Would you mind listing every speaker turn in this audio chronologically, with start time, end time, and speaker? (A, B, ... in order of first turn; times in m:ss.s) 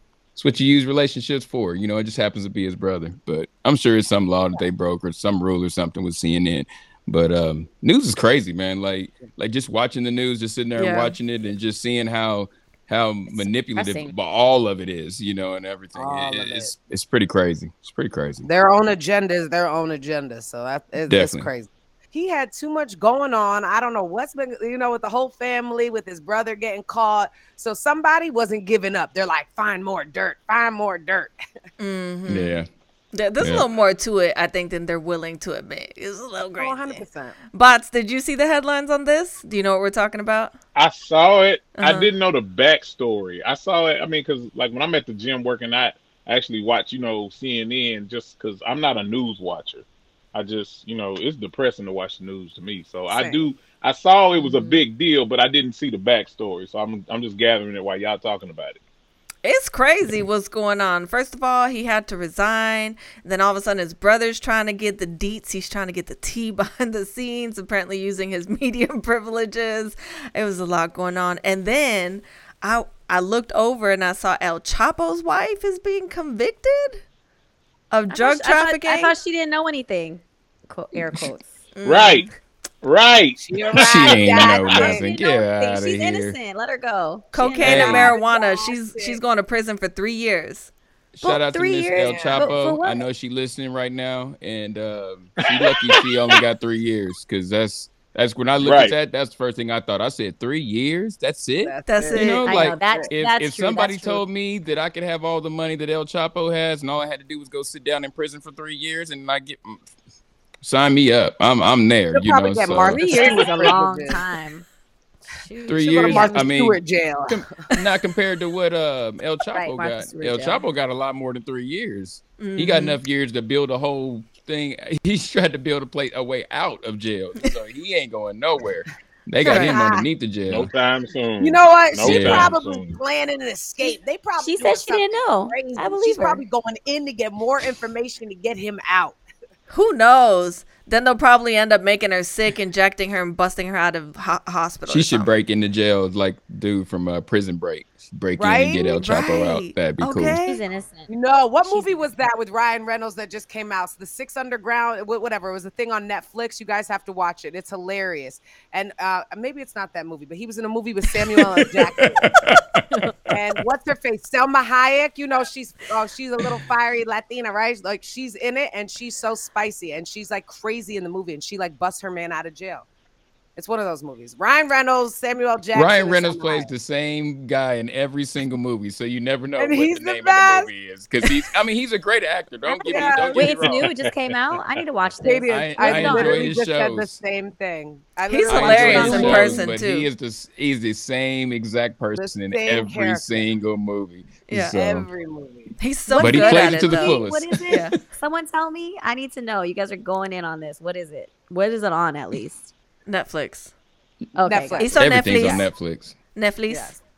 0:00.3-0:18.5 A
0:10.8-0:11.1 B
0:13.3-0:14.1 C
0:16.0-0:16.7 D
0:18.4-0:31.3 D
0:21.1-0:21.5 A
0:31.8-0:32.6 B
0:32.3-0:32.7 A
0:33.1-0:40.6 B
0:33.4-0:33.6 A
0:36.6-0:37.4 D
0:40.7-0:58.8 E
0:41.8-0:42.1 B
0:53.1-0:53.4 D
0:54.4-0:54.7 C
0:59.4-1:17.0 B
1:17.9-1:19.1 B
1:18.1-1:21.6 C
1:21.8-1:22.3 B
1:21.8-1:22.3 E
1:22.8-1:24.2 E
1:23.4-1:25.0 D
1:23.8-1:26.4 A
1:24.7-1:28.0 C
1:27.3-1:30.7 B
1:27.6-1:28.1 A
1:27.7-1:29.2 D
1:31.1-1:49.8 A
1:31.2-1:33.0 C
1:32.0-1:32.6 D
1:35.5-1:36.1 E
1:38.6-1:38.9 E
1:41.6-1:43.1 D
1:41.9-1:42.5 B
1:42.4-1:44.2 C
1:50.6-1:53.3 A
1:52.1-1:54.2 D
1:52.9-1:54.6 C
1:55.3-1:56.5 C
1:55.7-2:10.7 A
1:55.8-1:57.5 D
1:59.5-2:00.6 C
2:02.4-2:03.0 B
2:09.4-2:10.0 D
2:09.4-2:09.8 B
2:10.5-2:13.0 E
2:11.4-2:19.2 D
2:12.0-2:12.5 A
2:14.4-2:16.4 C
2:19.7-2:25.3 B
2:24.9-2:30.4 A
2:28.4-2:28.9 D
2:28.9-2:30.6 B
2:30.4-2:31.1 C
2:31.1-2:42.4 D
2:31.6-2:32.0 C
2:41.6-2:42.8 A
2:43.3-2:52.9 D
2:53.6-2:56.7 D
2:55.7-3:03.9 A
2:59.6-3:00.7 D
3:02.7-3:03.8 D
3:03.3-3:06.5 C
3:05.2-3:09.8 D
3:05.5-3:07.2 A
3:08.3-3:10.1 B
3:08.5-3:15.1 A
3:09.0-3:09.3 C
3:12.2-3:13.5 D
3:14.5-3:14.8 B
3:14.7-3:17.9 D
3:15.8-3:18.0 B
3:16.1-3:17.1 C
3:16.2-3:17.8 A
3:18.0-3:22.7 C
3:23.1-3:23.7 B
3:24.4-3:24.8 C
3:24.5-3:25.6 D
3:24.8-3:25.6 B
3:25.0-3:26.2 A
3:26.4-3:27.0 B
3:26.7-3:27.0 D